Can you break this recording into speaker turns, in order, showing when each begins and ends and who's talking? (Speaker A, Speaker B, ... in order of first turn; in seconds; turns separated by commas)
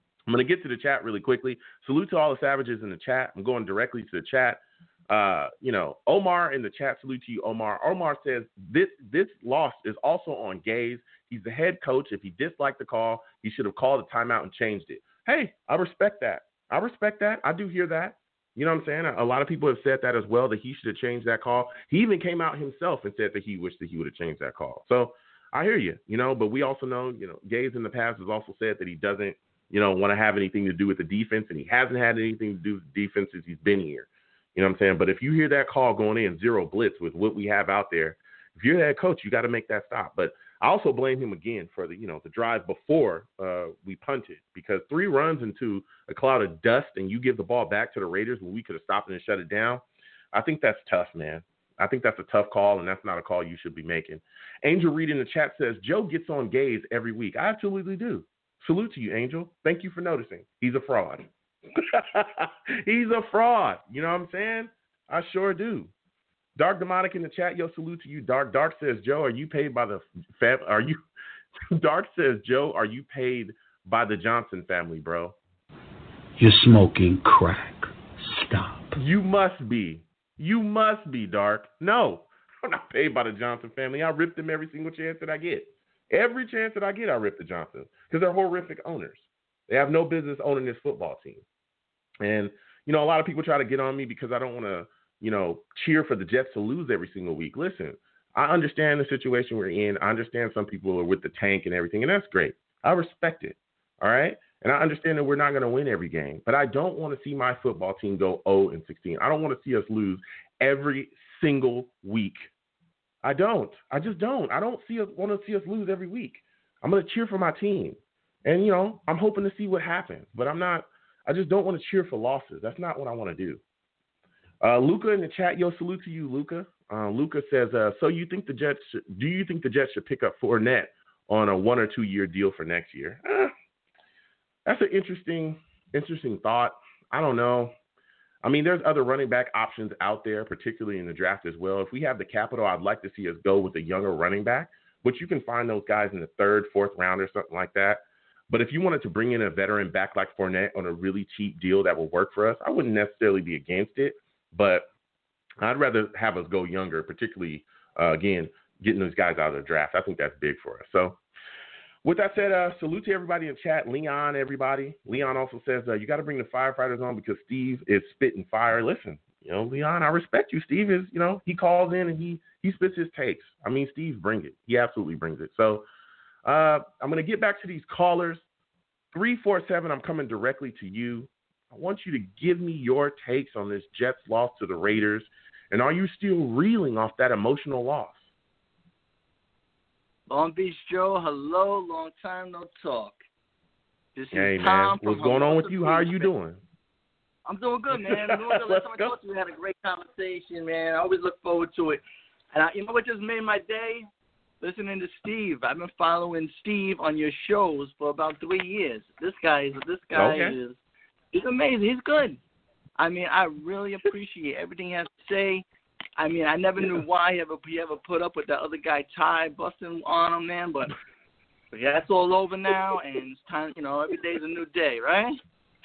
Speaker A: 0.3-65.9, Speaker A: 66.6-71.0, Speaker A: 71.7-75.4, Speaker B: 76.4-79.0, Speaker A: 79.0-91.4, Speaker A: 92.2-112.5, Speaker A: 113.2-123.6, Speaker A: 124.6-133.5, Speaker A: 134.7-137.8, Speaker A: 138.4-154.9, Speaker A: 155.6-161.2, Speaker A: 162.0-175.8, Speaker A: 176.4-178.4, Speaker A: 179.1-188.3, Speaker C: 190.3-193.2, Speaker C: 194.2-196.3, Speaker A: 194.3-196.6, Speaker C: 197.5-202.0, Speaker A: 197.9-199.2, Speaker C: 202.5-204.1, Speaker C: 204.6-210.8, Speaker A: 210.1-210.6, Speaker C: 211.3-212.4, Speaker C: 213.0-215.7, Speaker C: 216.2-220.9, Speaker C: 221.7-225.4